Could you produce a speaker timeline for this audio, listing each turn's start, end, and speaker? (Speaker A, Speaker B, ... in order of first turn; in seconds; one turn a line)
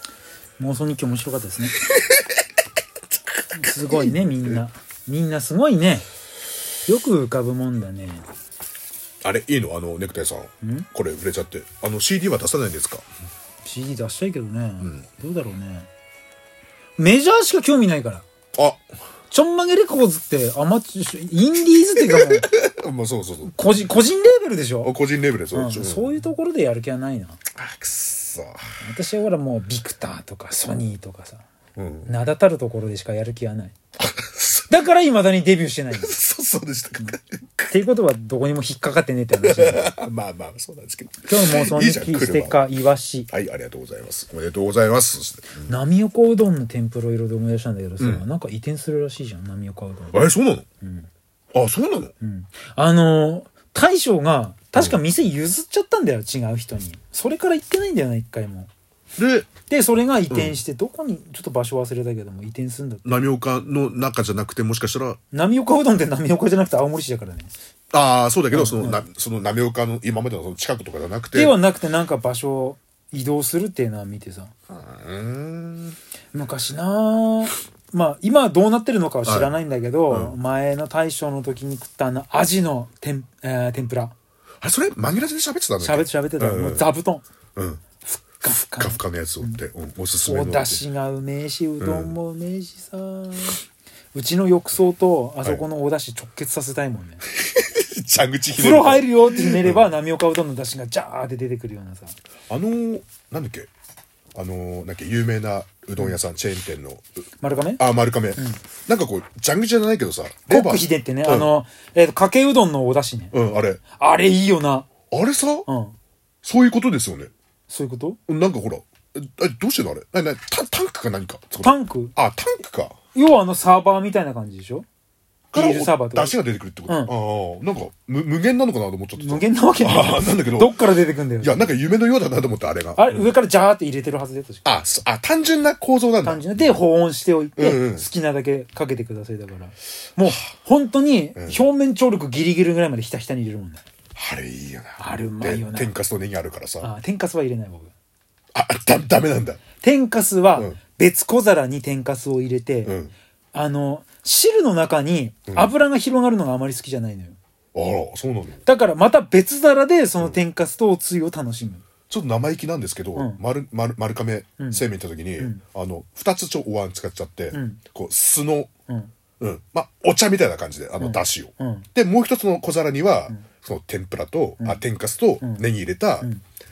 Speaker A: 0.6-1.8
Speaker B: 1.9-2.4
Speaker B: 3.5-4.6
Speaker A: 3.5-6.0
Speaker A: 6.8-8.2
Speaker B: 9.2-13.0
Speaker A: 10.6-10.9
Speaker A: 13.6-15.9
Speaker A: 17.0-18.2
Speaker B: 18.5-18.8
Speaker A: 19.3-22.5
Speaker B: 22.1-23.5
Speaker A: 23.4-24.9
Speaker B: 24.8-26.1
Speaker A: 25.5-27.4
Speaker B: 27.6-28.6
Speaker A: 28.8-31.4
Speaker B: 31.8-32.1
Speaker A: 32.0-33.7
Speaker B: 34.0-34.7
Speaker A: 34.7-36.1
Speaker B: 36.0-37.7
Speaker A: 37.7-40.0
Speaker B: 39.4-42.6
Speaker A: 41.2-43.3
Speaker B: 43.3-45.7
Speaker A: 45.6-50.3
Speaker B: 48.0-48.2
Speaker B: 50.1-50.6
Speaker A: 50.8-51.1
Speaker B: 51.5-52.1
Speaker A: 52.2-58.7
Speaker B: 59.1-59.5
Speaker A: 59.7-63.2
Speaker B: 60.3-60.6
Speaker B: 63.0-65.2
Speaker A: 65.3-67.5
Speaker B: 67.9-71.5
Speaker A: 68.5-69.0
Speaker A: 71.3-74.5
Speaker B: 74.7-76.0
Speaker A: 76.3-84.1
Speaker B: 79.2-79.5
Speaker B: 80.1-80.3
Speaker B: 84.6-86.9
Speaker A: 85.8-87.2
Speaker B: 87.5-87.8
Speaker A: 88.0-89.6
Speaker B: 88.7-90.8
Speaker A: 90.2-93.6
Speaker B: 91.8-92.2
Speaker A: 94.1-97.2
Speaker B: 97.4-99.9
Speaker A: 98.5-102.2
Speaker B: 102.5-103.7
Speaker B: 104.3-107.0
Speaker A: 107.4-108.6
Speaker B: 107.8-111.5
Speaker A: 110.5-113.3
Speaker B: 113.3-113.8
Speaker A: 113.9-114.9
Speaker B: 115.1-115.7
Speaker A: 115.7-115.9
Speaker B: 116.4-117.3
Speaker A: 117.7-118.2
Speaker B: 118.3-123.0
Speaker A: 121.6-122.1
Speaker A: 123.1-124.8
Speaker B: 125.5-130.8
Speaker A: 125.5-127.1
Speaker A: 129.2-131.7
Speaker B: 131.4-133.3
Speaker A: 132.9-134.6
Speaker B: 134.6-136.8
Speaker A: 136.2-143.8
Speaker B: 137.6-138.1
Speaker B: 141.3-141.6
Speaker B: 144.2-146.9
Speaker A: 145.0-145.9
Speaker A: 146.8-147.9
Speaker B: 148.5-149.6
Speaker A: 149.8-152.9
Speaker B: 152.8-153.1
Speaker A: 153.5-157.4
Speaker B: 157.7-158.6
Speaker A: 158.6-161.8
Speaker B: 162.1-168.7
Speaker A: 163.1-163.4
Speaker A: 167.5-167.8
Speaker B: 169.4-176.3
Speaker A: 171.0-171.9